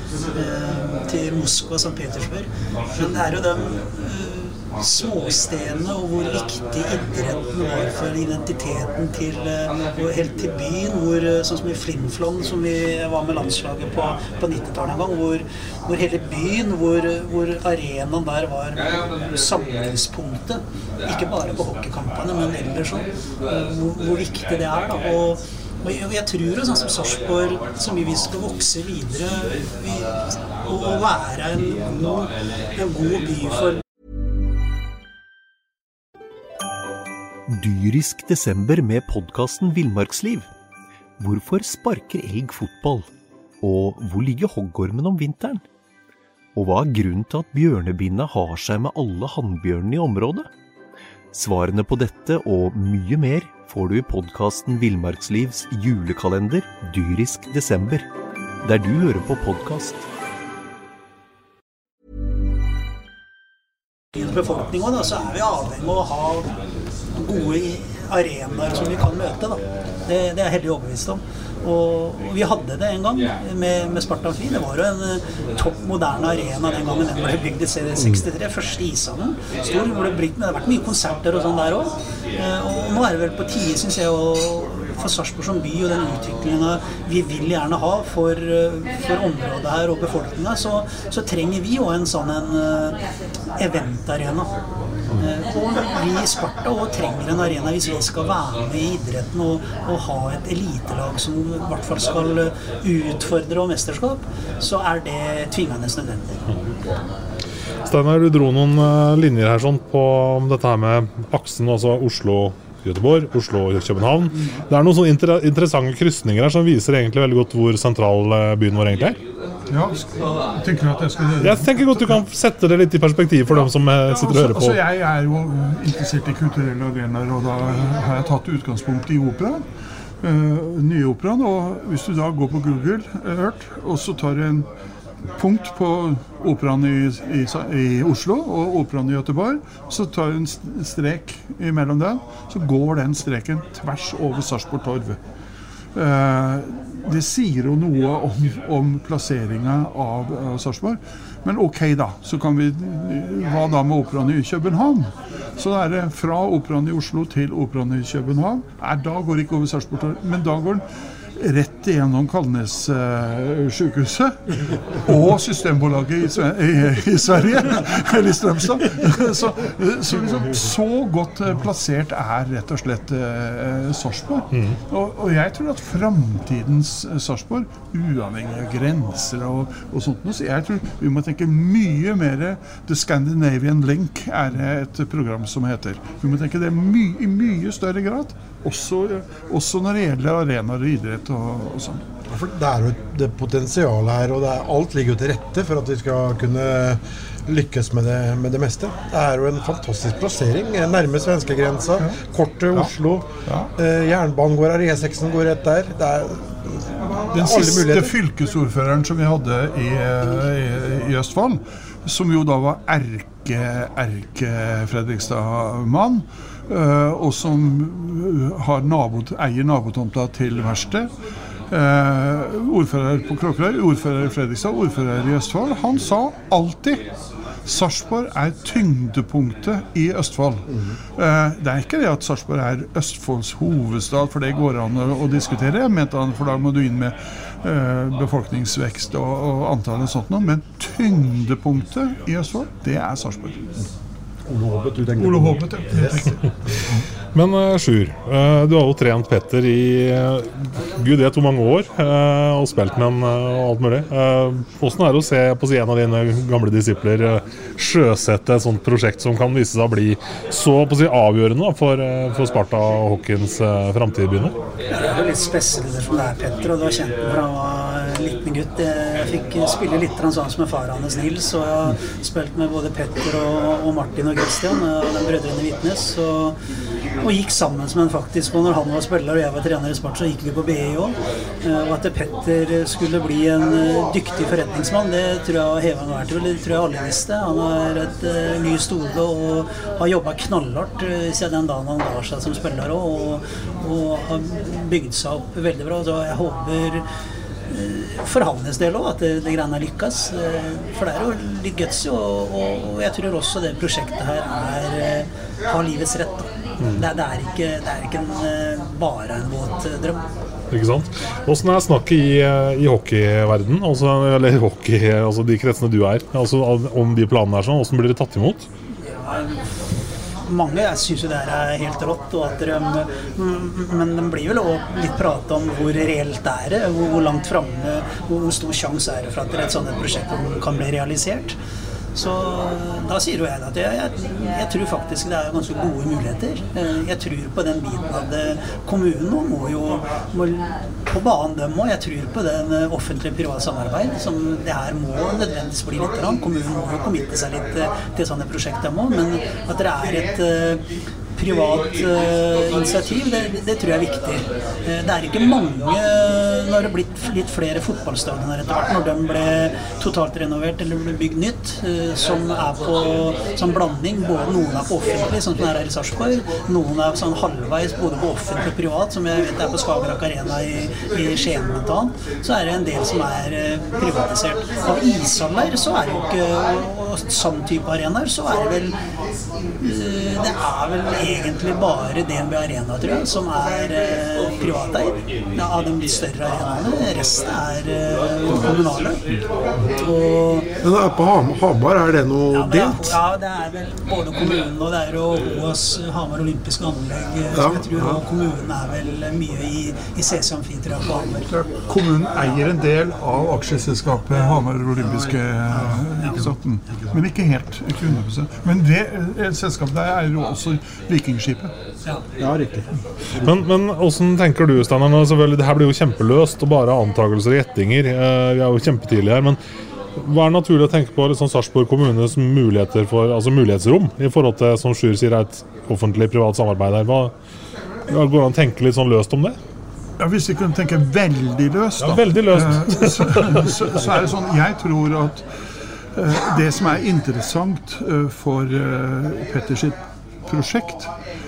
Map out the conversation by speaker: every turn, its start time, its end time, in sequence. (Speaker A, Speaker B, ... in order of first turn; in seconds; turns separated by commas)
Speaker A: 0.3-30.1, Speaker A: 30.6-33.8, Speaker B: 37.5-40.5, Speaker B: 41.2-43.1, Speaker B: 43.6-45.6, Speaker B: 46.5-50.5, Speaker B: 51.3-58.1, Speaker B: 58.6-60.0, Speaker A: 64.2-66.5, Speaker A: 67.2-93.0, Speaker A: 93.6-94.5, Speaker A: 95.2-106.4, Speaker C: 107.9-119.2, Speaker D: 119.7-122.2, Speaker C: 121.4-124.8, Speaker D: 124.1-129.6, Speaker D: 130.2-134.7, Speaker D: 135.4-145.2, Speaker D: 145.9-160.8, Speaker D: 161.4-164.4, Speaker D: 165.0-192.0, Speaker E: 192.3-208.1, Speaker D: 207.3-221.1, Speaker D: 221.7-227.0, Speaker D: 227.7-230.7, Speaker E: 230.7-230.9, Speaker D: 231.2-243.7, Speaker E: 244.5-246.4, Speaker D: 245.2-246.4, Speaker C: 247.3-264.6, Speaker A: 264.9-276.6, Speaker A: 277.2-297.0, Speaker A: 297.7-310.2, Speaker C: 310.7-318.7, Speaker A: 319.1-319.6, Speaker A: 320.5-331.6, Speaker A: 332.1-350.8, Speaker A: 351.4-378.9, Speaker A: 379.8-389.2, Speaker A: 390.0-390.7, Speaker E: 390.8-393.2, Speaker A: 392.5-401.5, Speaker E: 397.5-398.2, Speaker D: 401.5-411.7, Speaker E: 405.7-406.5, Speaker E: 412.4-412.9, Speaker C: 413.4-419.6, Speaker C: 420.2-427.3, Speaker C: 428.1-429.6, Speaker D: 430.2-435.5, Speaker C: 432.0-433.8, Speaker D: 436.1-441.1